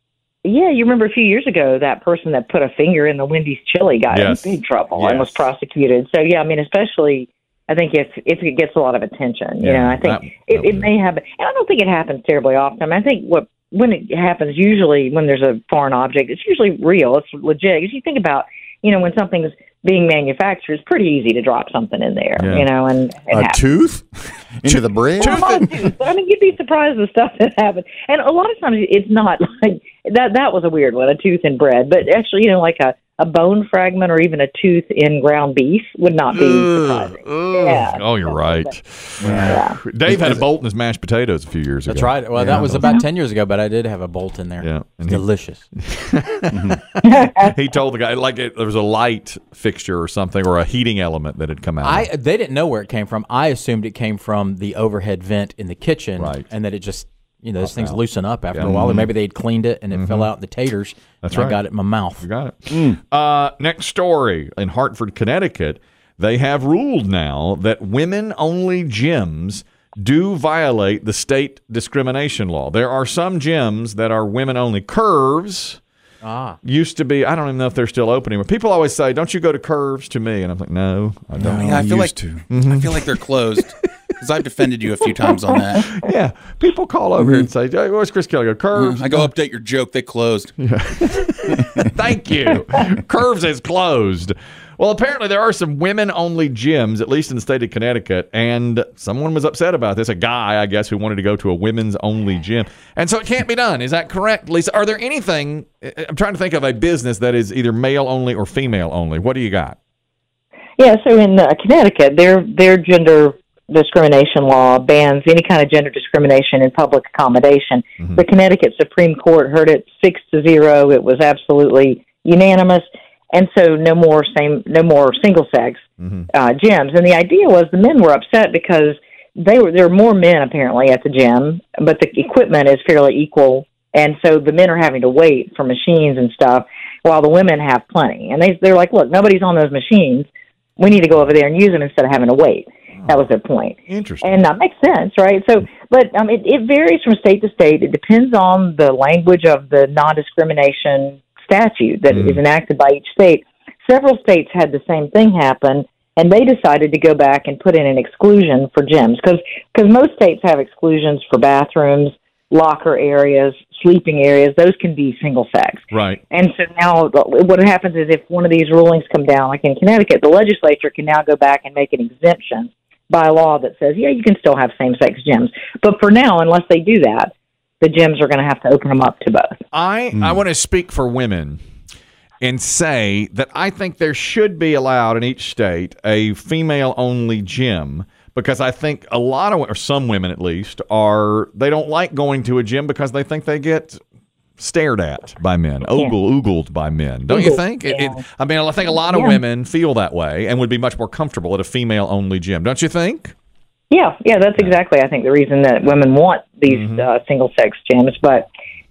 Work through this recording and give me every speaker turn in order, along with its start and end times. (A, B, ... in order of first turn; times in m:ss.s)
0:00.4-0:23.6 A
0:04.1-0:05.5 B
0:09.6-0:10.9 B
0:22.4-0:22.7 B
0:23.3-0:25.7 C
0:24.6-0:25.7 B
0:25.2-0:38.8 A
0:36.3-0:43.0 B
0:39.2-0:40.4 C
0:39.5-0:39.8 A
0:41.9-0:45.7 D
0:42.4-0:42.8 C
0:44.6-0:45.2 B
0:45.8-0:52.1 B
0:46.5-0:46.8 C
0:47.0-0:47.5 A
0:51.8-1:02.3 D
0:56.2-0:56.5 B
0:57.6-0:58.0 B
0:58.5-0:59.1 B
0:59.9-1:00.3 B
1:01.2-1:01.6 B
1:02.2-1:15.8 B
1:02.7-1:03.0 C
1:16.2-1:16.6 D
1:16.6-1:21.9 B
1:21.4-1:22.5 C
1:21.5-1:25.9 E
1:22.5-1:23.0 B
1:25.8-1:29.3 B
1:27.2-1:27.5 E
1:28.7-1:30.6 E
1:30.6-1:49.8 B
1:50.8-2:20.3 A
1:58.0-1:58.2 B
2:06.0-2:06.3 B
2:20.8-2:59.6 A
2:23.0-2:23.3 B
2:23.9-2:24.4 B
2:32.1-2:32.4 B
2:45.9-2:46.2 B
2:59.7-3:01.6 B
3:00.2-3:00.4 C
3:02.4-3:14.0 B
3:14.6-3:23.3 B
3:17.3-3:18.2 A
3:19.1-3:19.4 A
3:23.9-3:28.5 A
3:26.7-3:27.1 B